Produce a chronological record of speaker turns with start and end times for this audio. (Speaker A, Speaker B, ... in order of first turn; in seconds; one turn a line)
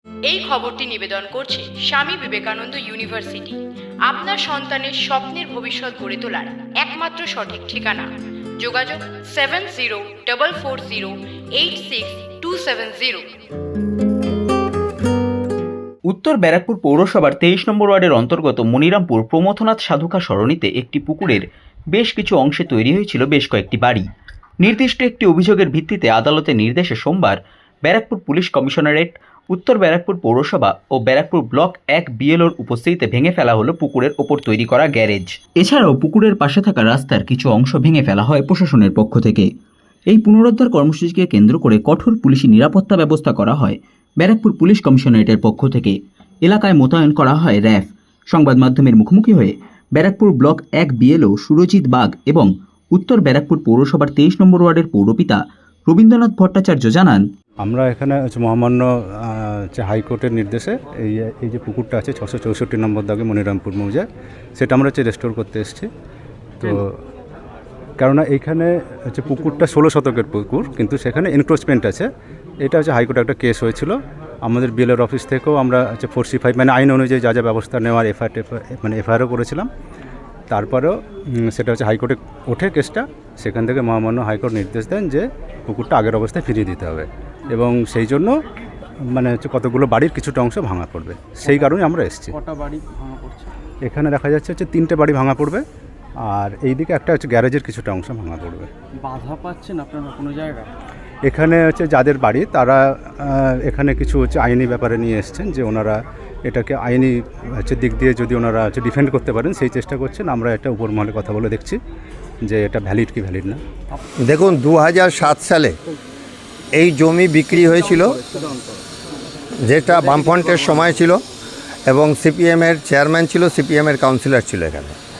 Speaker A: 0.3-8.1
Speaker A: 8.6-13.3
Speaker B: 16.1-24.0
Speaker B: 24.6-39.5
Speaker B: 40.1-57.2
Speaker C: 57.6-64.0
Speaker C: 64.5-65.9
Speaker C: 66.6-66.9
Speaker C: 68.0-72.1
Speaker C: 72.6-79.7
Speaker C: 80.5-80.9
Speaker C: 81.4-88.3
Speaker C: 89.1-92.3
Speaker D: 91.4-91.8
Speaker D: 92.3-93.5
Speaker C: 93.8-95.6
Speaker C: 96.2-98.7
Speaker D: 98.9-100.7
Speaker C: 101.2-111.8
Speaker C: 112.5-113.6
Speaker E: 114.2-115.7
Speaker E: 116.8-118.2
Speaker D: 117.6-118.8
Speaker E: 119.6-121.2
Speaker D: 120.0-120.8
Speaker E: 121.9-125.0